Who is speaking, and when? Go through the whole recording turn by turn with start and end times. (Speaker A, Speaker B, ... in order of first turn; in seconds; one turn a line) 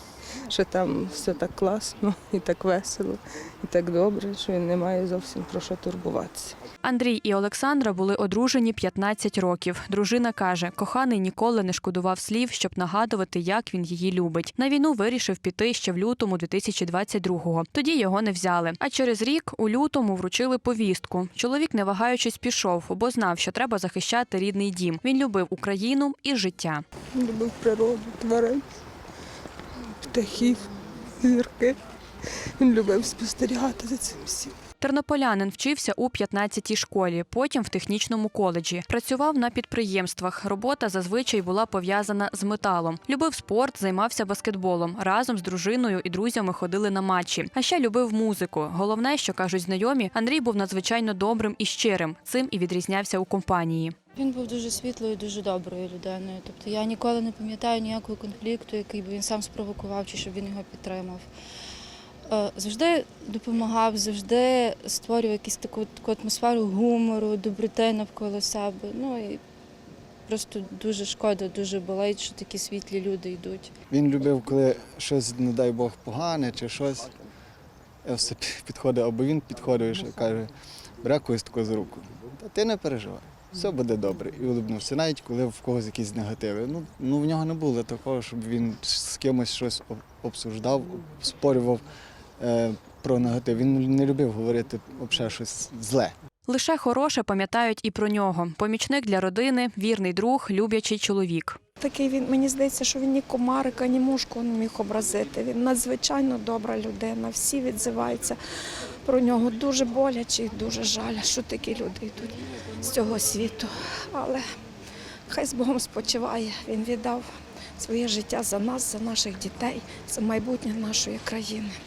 Speaker A: 0.5-6.6
Speaker B: 6.8-26.8
Speaker A: 27.1-28.6
Speaker A: 30.0-31.8
Speaker A: 32.6-34.5
Speaker B: 34.8-54.0
Speaker C: 54.2-61.2
Speaker C: 62.3-69.4
Speaker C: 70.3-73.7
Speaker D: 73.9-77.2
Speaker D: 78.0-91.8
Speaker D: 92.4-96.1
Speaker B: 96.5-101.6
Speaker E: 101.8-108.4
Speaker E: 109.0-114.5
Speaker E: 115.3-121.8